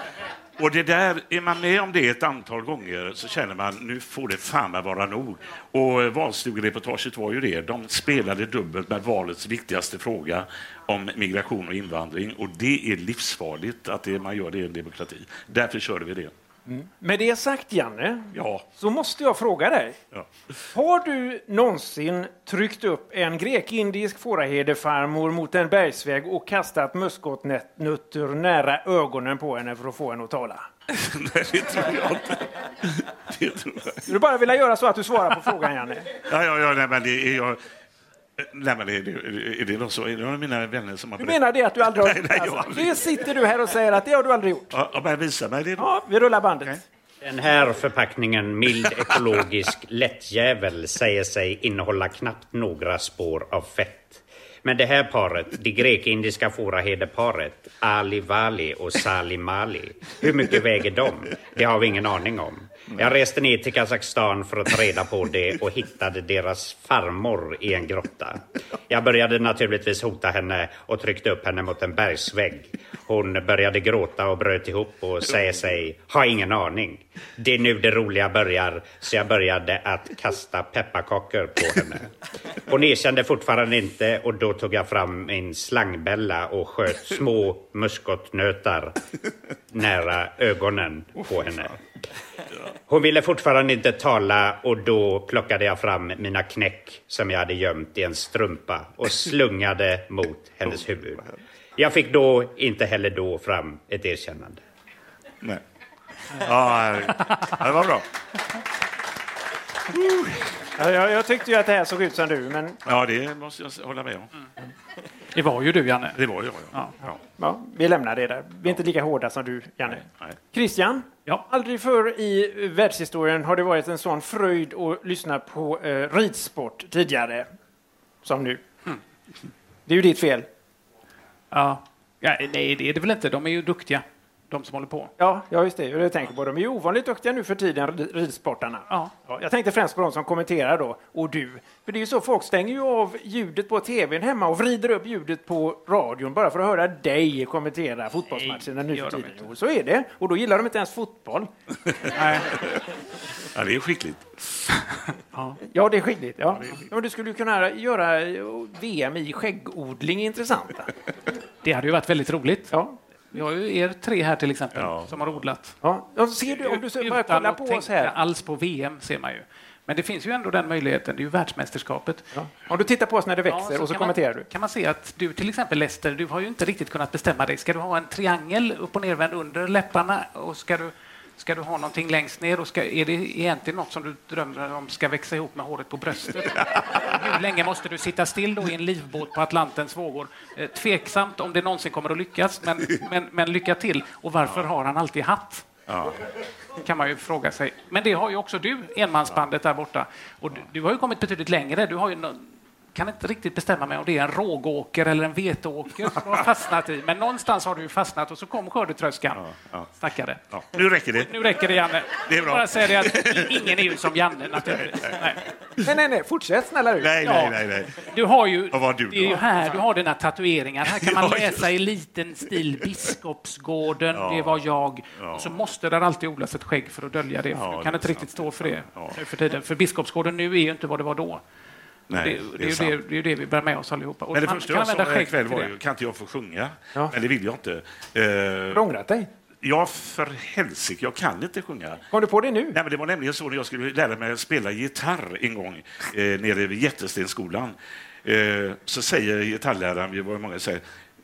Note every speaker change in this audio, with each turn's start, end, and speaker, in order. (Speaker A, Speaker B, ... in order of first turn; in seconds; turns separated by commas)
Speaker A: 0.6-16.3, Speaker B: 16.7-20.0, Speaker A: 18.3-18.6, Speaker B: 20.7-30.7, Speaker A: 30.9-34.0, Speaker B: 34.1-36.1, Speaker A: 36.2-37.6, Speaker A: 38.4-43.0, Speaker B: 41.2-44.7, Speaker A: 44.7-45.9, Speaker B: 45.8-46.8, Speaker C: 47.2-82.1, Speaker C: 82.6-89.0, Speaker C: 89.7-91.8, Speaker C: 92.9-101.2, Speaker C: 101.8-104.6, Speaker A: 106.3-108.0, Speaker B: 110.8-112.8, Speaker A: 112.8-114.3, Speaker D: 115.3-116.2, Speaker A: 116.2-117.2, Speaker B: 117.4-127.5, Speaker B: 128.2-128.6, Speaker B: 129.9-130.5, Speaker D: 131.5-135.1, Speaker B: 135.2-151.5, Speaker D: 148.3-149.4, Speaker D: 152.1-152.5, Speaker A: 152.5-152.8, Speaker A: 153.5-154.7, Speaker D: 155.3-155.6, Speaker B: 155.7-160.9, Speaker D: 161.6-162.7, Speaker B: 162.7-162.9, Speaker D: 163.3-165.8, Speaker A: 164.7-165.4, Speaker B: 165.8-168.1, Speaker D: 166.6-172.2, Speaker B: 172.3-174.5, Speaker D: 173.5-195.7, Speaker A: 195.9-196.2, Speaker D: 196.8-209.4, Speaker A: 209.3-209.9, Speaker D: 209.9-210.4, Speaker A: 210.5-214.0, Speaker D: 211.1-215.4, Speaker A: 214.7-215.2, Speaker B: 215.8-217.2, Speaker A: 217.0-218.1, Speaker D: 217.2-231.4, Speaker A: 218.7-219.8, Speaker A: 220.9-221.6, Speaker A: 224.1-224.6, Speaker A: 225.1-225.6, Speaker A: 227.5-229.2, Speaker A: 232.1-233.0, Speaker D: 232.1-235.7, Speaker A: 234.3-238.8, Speaker B: 238.7-239.3, Speaker A: 239.6-242.0, Speaker B: 242.1-242.8, Speaker A: 242.7-250.8